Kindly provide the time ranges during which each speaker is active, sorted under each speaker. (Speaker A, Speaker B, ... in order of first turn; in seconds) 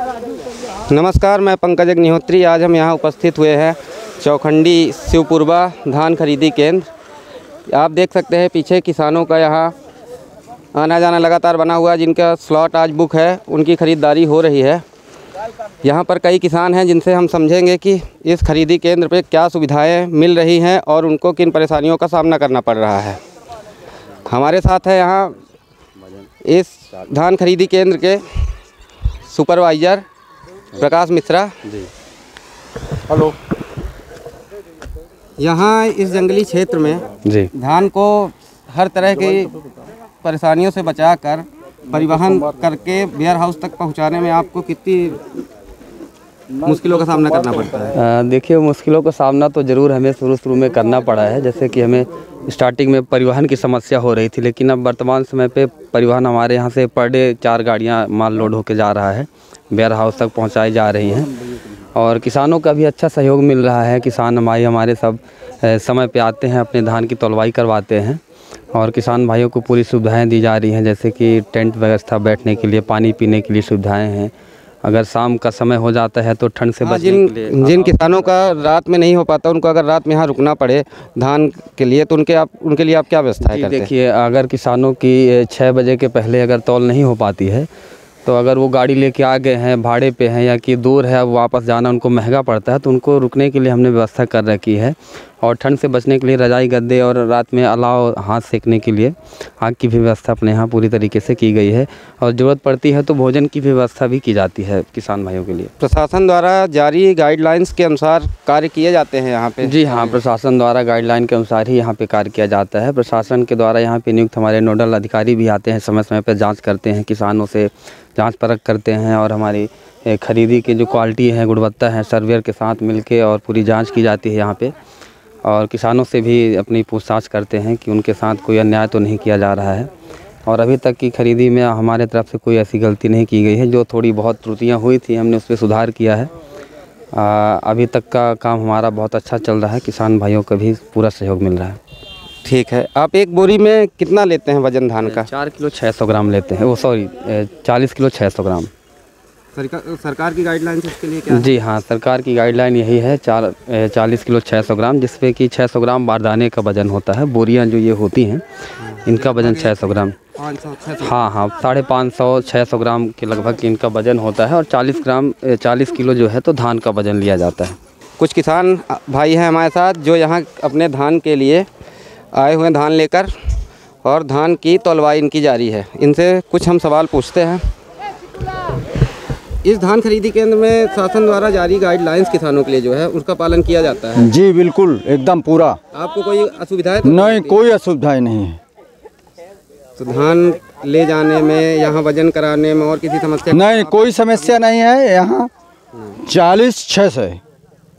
Speaker A: 0.9-6.9, 7.7-9.7, 10.7-14.8, 15.8-23.2, 24.2-25.4, 26.4-28.5, 29.3-30.0, 30.8-31.5, 35.4-37.0, 37.5-39.6, 40.2-45.2, 46.6-47.9, 76.8-83.9, 105.8-110.2, 142.4-145.3, 149.6-151.5, 158.8-161.2, 168.2-171.7, 172.3-173.3, 174.0-177.6, 179.6-184.3, 185.9-187.6, 190.0-194.6
Speaker B: 37.3-37.5, 48.0-61.3, 62.0-68.2, 68.7-74.3, 74.8-78.2, 83.5-87.7, 88.2-105.7, 109.6-124.7, 125.4-129.9, 130.5-136.3, 137.1-141.8, 145.0-148.7, 151.3-158.4, 159.1-160.2, 161.0-167.8
Speaker C: 184.2-185.8, 187.0-188.6, 193.5-195.5, 196.2-197.4